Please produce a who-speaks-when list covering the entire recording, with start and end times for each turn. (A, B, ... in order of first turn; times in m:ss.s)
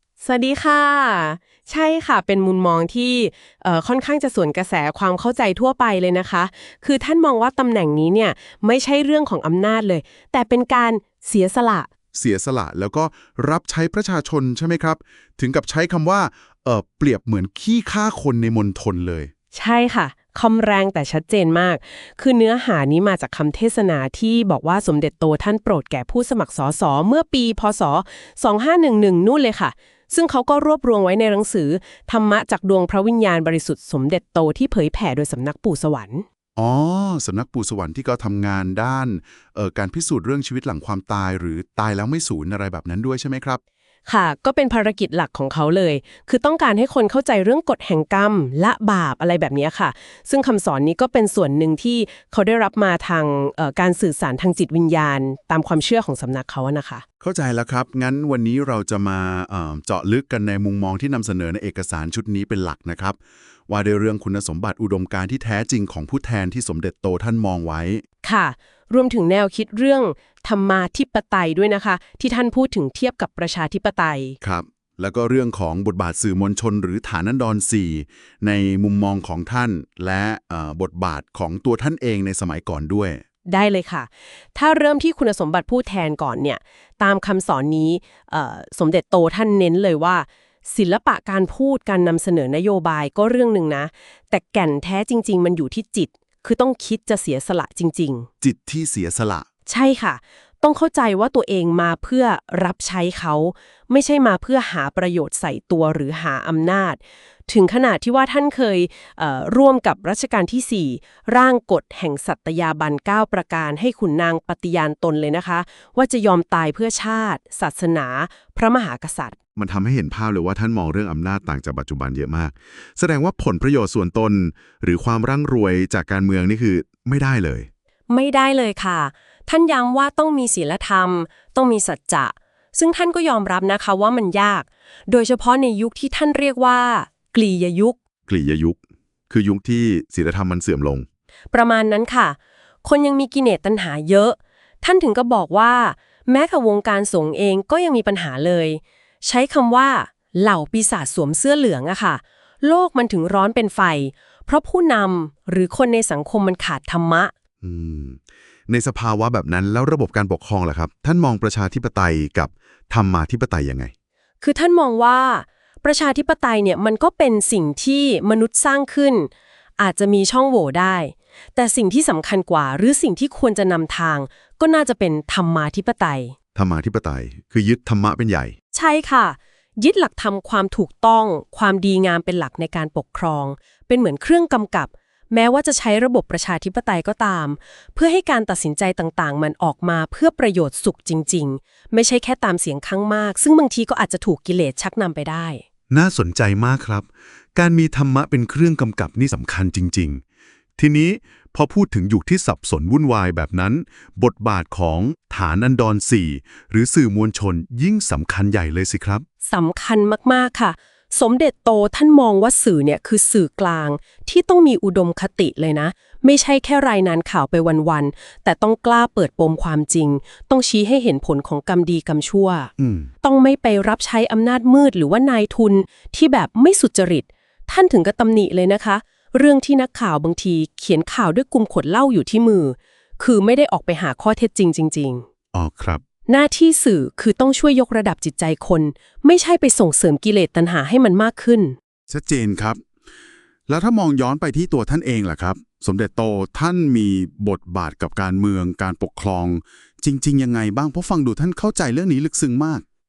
0:00.2-0:11.9 A
0:12.1-0:19.3 B
0:19.5-0:36.2 A
0:36.6-0:43.6 B
0:44.1-0:57.0 A
0:57.2-1:08.0 B
1:08.2-1:14.4 A
1:14.4-1:23.2 B
1:23.5-1:38.3 A
1:38.4-1:39.5 B
1:39.7-1:59.4 A
1:59.6-2:07.7 B
2:08.1-2:18.0 A
2:18.3-2:18.8 B
2:19.3-2:21.1 B
2:21.5-2:37.3 A
2:37.6-2:43.9 B
2:44.4-2:56.4 A
2:56.6-2:58.5 B
2:58.7-3:15.6 A
3:15.9-3:20.2 B
3:20.8-3:29.3 B
3:29.4-3:42.7 A
3:42.8-3:43.1 B
3:43.2-3:55.3 A
3:55.5-3:56.0 B
3:56.3-4:01.8 A
4:02.1-4:02.8 B
4:03.7-4:12.8 B